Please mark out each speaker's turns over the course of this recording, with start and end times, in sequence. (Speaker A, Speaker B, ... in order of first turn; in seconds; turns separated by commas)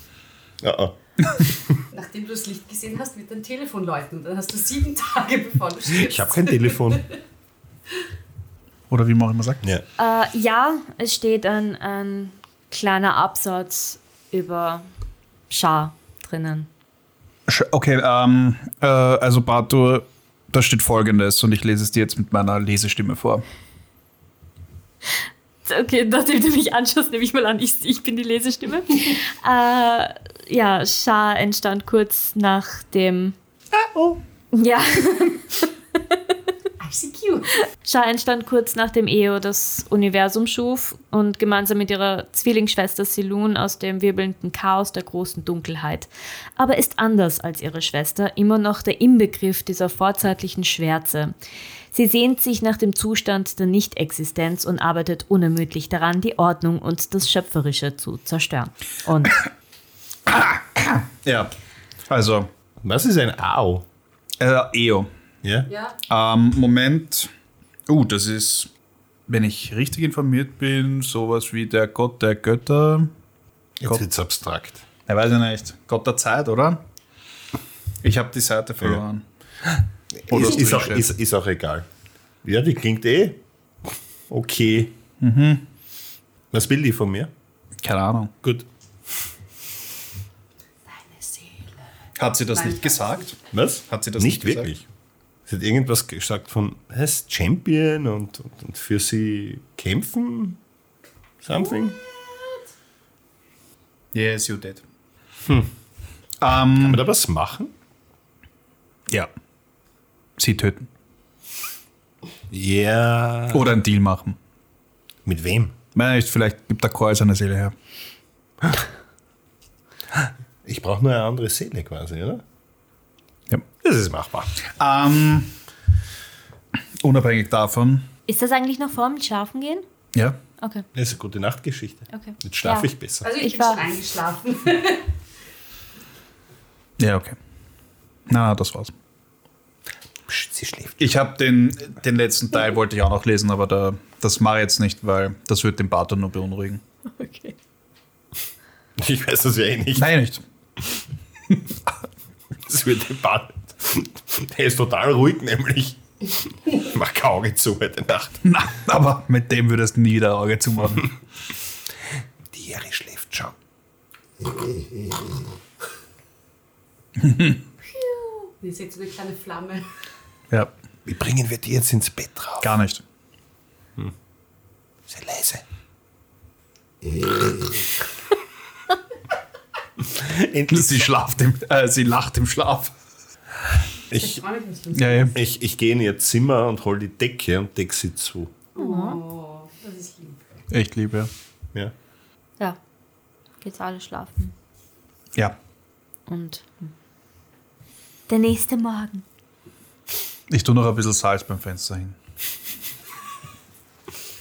Speaker A: 0.6-1.8, Speaker B: 1.9-7.0, Speaker A: 5.9-7.0, Speaker C: 8.9-9.6, Speaker D: 10.0-14.9, Speaker D: 15.5-16.7, Speaker C: 17.5-23.4, Speaker D: 25.6-33.4, Speaker D: 34.5-36.2, Speaker B: 36.8-37.6, Speaker D: 37.8-51.4, Speaker D: 51.9-59.4, Speaker C: 60.3-61.5, Speaker C: 62.1-62.5, Speaker A: 62.8-63.9, Speaker C: 64.4-65.1, Speaker A: 65.4-65.7, Speaker B: 65.7-66.0, Speaker C: 66.1-67.3, Speaker C: 67.9-68.7, Speaker C: 69.3-73.1, Speaker A: 73.8-74.8, Speaker C: 75.1-76.8, Speaker C: 78.0-79.2, Speaker A: 80.1-81.9, Speaker C: 80.3-81.1, Speaker A: 82.4-83.4, Speaker A: 84.3-84.9, Speaker C: 85.2-85.6, Speaker A: 86.5-87.3, Speaker C: 87.8-88.3, Speaker B: 90.9-91.8, Speaker C: 92.2-93.4, Speaker B: 92.5-93.3, Speaker A: 93.5-94.8, Speaker C: 93.9-94.7, Speaker A: 95.5-100.6, Speaker A: 101.4-102.0, Speaker C: 104.1-104.8, Speaker A: 105.5-105.7, Speaker C: 106.4-107.0, Speaker A: 106.8-107.7, Speaker C: 110.4-110.9, Speaker A: 112.5-113.7, Speaker C: 113.5-114.4, Speaker A: 115.3-115.8, Speaker C: 115.9-117.8, Speaker A: 120.6-122.4, Speaker A: 123.8-124.6, Speaker C: 124.8-125.5, Speaker C: 127.0-128.1, Speaker D: 128.3-129.8, Speaker D: 130.6-130.9, Speaker A: 130.9-133.3, Speaker D: 132.1-133.8, Speaker B: 133.2-135.1, Speaker C: 137.0-137.4, Speaker C: 138.3-138.9, Speaker A: 140.3-141.1, Speaker C: 141.0-146.8, Speaker D: 147.1-147.6, Speaker A: 149.0-150.1, Speaker C: 150.0-150.4, Speaker C: 151.5-151.8, Speaker A: 152.6-156.0, Speaker A: 156.7-158.4, Speaker C: 158.4-161.1, Speaker A: 162.5-163.6, Speaker C: 167.2-167.6, Speaker D: 167.9-168.5, Speaker B: 168.6-169.8, Speaker A: 171.1-172.7, Speaker C: 172.6-173.0, Speaker A: 175.1-175.6, Speaker A: 180.1-181.1, Speaker C: 180.7-182.9, Speaker A: 184.1-184.4, Speaker B: 184.2-185.3, Speaker C: 184.9-185.3, Speaker A: 185.3-188.5, Speaker B: 188.8-190.4, Speaker D: 188.8-189.2, Speaker C: 190.7-191.3, Speaker D: 193.6-194.5, Speaker D: 196.3-196.9, Speaker D: 198.3-199.2, Speaker C: 200.5-202.2